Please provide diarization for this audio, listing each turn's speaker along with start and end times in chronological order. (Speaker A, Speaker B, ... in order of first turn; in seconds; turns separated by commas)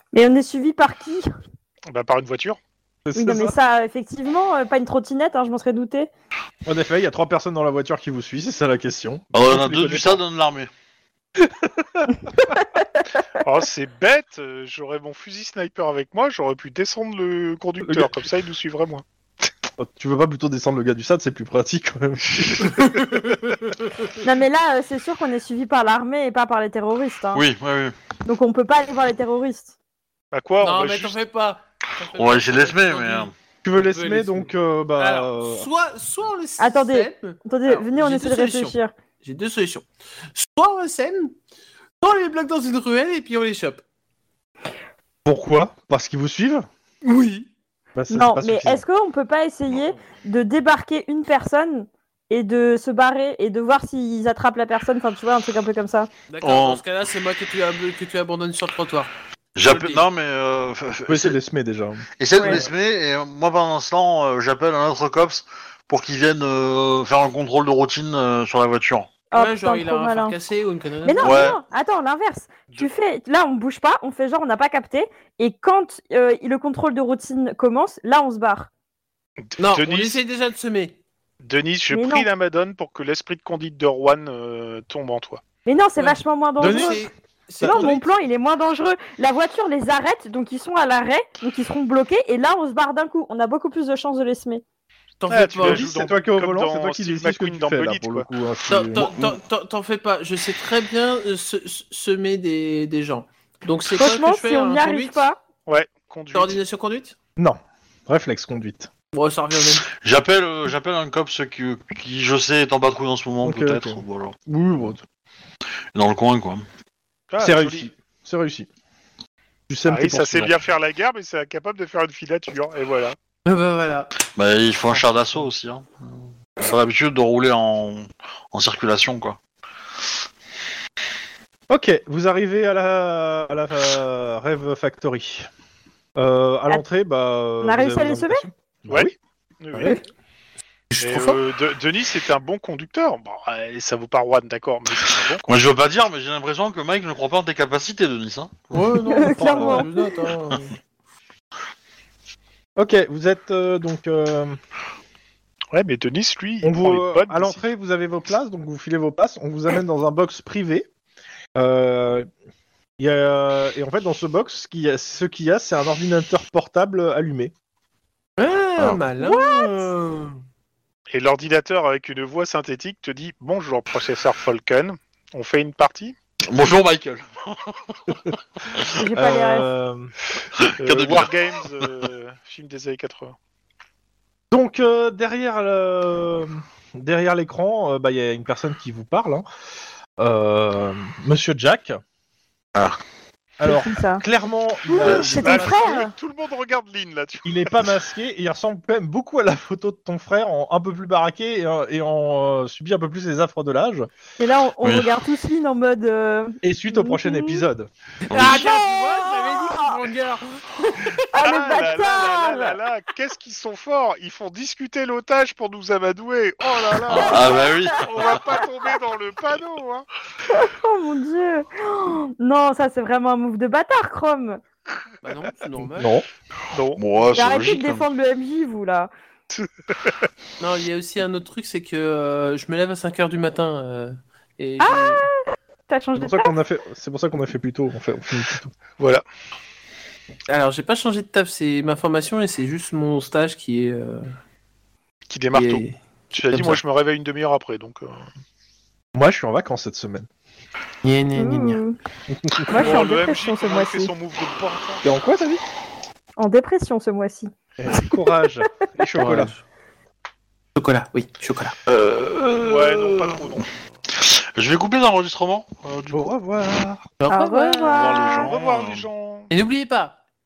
Speaker A: 0.1-1.3, Speaker B: 1.9-2.6, Speaker C: 3.0-3.5, Speaker A: 3.1-6.1, Speaker C: 6.7-10.2, Speaker D: 9.3-10.7, Speaker C: 11.4-12.1, Speaker B: 13.4-19.0, Speaker C: 17.8-18.1, Speaker C: 19.8-23.1, Speaker E: 22.8-23.3, Speaker A: 24.2-27.4, Speaker D: 27.3-27.9, Speaker A: 28.2-29.7, Speaker B: 30.3-31.2, Speaker E: 30.6-41.3, Speaker D: 32.1-33.3, Speaker C: 33.6-35.7, Speaker A: 36.6-38.9, Speaker E: 42.0-43.8, Speaker C: 45.2-46.6, Speaker E: 47.0-47.5, Speaker C: 48.0-48.8, Speaker A: 48.1-56.1, Speaker E: 56.3-60.1, Speaker D: 56.4-56.8, Speaker D: 59.5-61.4, Speaker C: 61.1-62.0, Speaker D: 62.2-69.1, Speaker A: 62.3-62.6, Speaker A: 69.3-70.4, Speaker E: 69.3-71.6, Speaker A: 71.0-78.7, Speaker D: 71.2-71.6, Speaker B: 79.4-80.2, Speaker E: 79.6-81.0, Speaker B: 81.4-85.4, Speaker A: 81.9-82.3, Speaker A: 85.7-87.0, Speaker E: 86.0-88.1, Speaker C: 86.6-87.0, Speaker C: 87.6-87.9, Speaker A: 87.6-94.6, Speaker E: 95.2-95.9, Speaker B: 95.3-98.3, Speaker C: 95.6-99.4, Speaker E: 98.7-105.2, Speaker A: 103.9-105.4, Speaker B: 105.7-106.6, Speaker E: 106.3-107.2, Speaker C: 107.4-108.9, Speaker E: 109.1-109.9, Speaker D: 110.0-114.3, Speaker C: 113.4-115.0, Speaker D: 115.9-116.6, Speaker B: 117.3-117.9, Speaker C: 117.4-118.7, Speaker C: 119.7-120.5, Speaker B: 119.9-123.2, Speaker E: 123.4-124.1, Speaker D: 124.3-129.4, Speaker C: 131.7-135.5, Speaker C: 136.2-139.1, Speaker A: 137.6-138.4, Speaker B: 138.9-140.0, Speaker E: 140.9-141.4, Speaker B: 141.0-145.5, Speaker D: 145.5-149.0, Speaker E: 148.7-150.7, Speaker A: 149.1-150.1, Speaker C: 149.2-149.9, Speaker C: 152.8-154.6, Speaker B: 155.7-157.6, Speaker C: 156.6-160.9, Speaker C: 161.5-162.3, Speaker C: 163.0-167.5, Speaker E: 168.4-170.4, Speaker A: 169.2-169.9, Speaker B: 171.1-176.1, Speaker D: 176.4-178.9, Speaker A: 179.0-179.7, Speaker C: 179.1-180.1, Speaker D: 180.5-181.3, Speaker B: 180.8-183.3, Speaker C: 184.5-189.4, Speaker C: 190.2-192.0, Speaker C: 193.6-195.7, Speaker A: 193.6-194.2, Speaker E: 194.9-195.6, Speaker B: 194.9-197.8, Speaker A: 195.0-196.1, Speaker C: 197.4-204.1, Speaker A: 204.4-207.6, Speaker D: 204.8-205.1, Speaker C: 206.6-207.9, Speaker E: 208.3-210.6, Speaker D: 208.3-208.7, Speaker A: 208.4-210.0, Speaker A: 210.9-212.8, Speaker B: 211.4-220.1, Speaker A: 217.1-218.1, Speaker D: 217.1-218.6, Speaker A: 220.5-224.6, Speaker E: 225.2-226.1, Speaker C: 225.9-226.2, Speaker B: 226.7-227.0, Speaker D: 227.0-228.1, Speaker A: 227.3-229.1, Speaker B: 229.6-230.1, Speaker E: 230.6-235.2, Speaker A: 234.8-235.3, Speaker A: 235.9-236.5, Speaker C: 236.1-238.7, Speaker B: 239.0-239.2, Speaker E: 240.5-244.3, Speaker B: 245.3-248.3, Speaker E: 245.5-246.0, Speaker E: 246.5-246.8, Speaker C: 249.1-250.3, Speaker E: 251.0-251.8, Speaker A: 251.3-251.9, Speaker C: 252.3-253.0, Speaker A: 252.7-254.1, Speaker B: 252.8-255.0, Speaker C: 255.0-255.6, Speaker A: 256.4-257.5, Speaker C: 257.8-259.5, Speaker E: 259.2-259.6, Speaker E: 260.8-261.8, Speaker B: 262.6-263.7, Speaker D: 264.1-266.3, Speaker C: 266.1-267.1, Speaker E: 267.2-268.4, Speaker A: 267.3-268.5, Speaker D: 267.8-269.1, Speaker B: 268.4-269.5, Speaker E: 269.5-270.2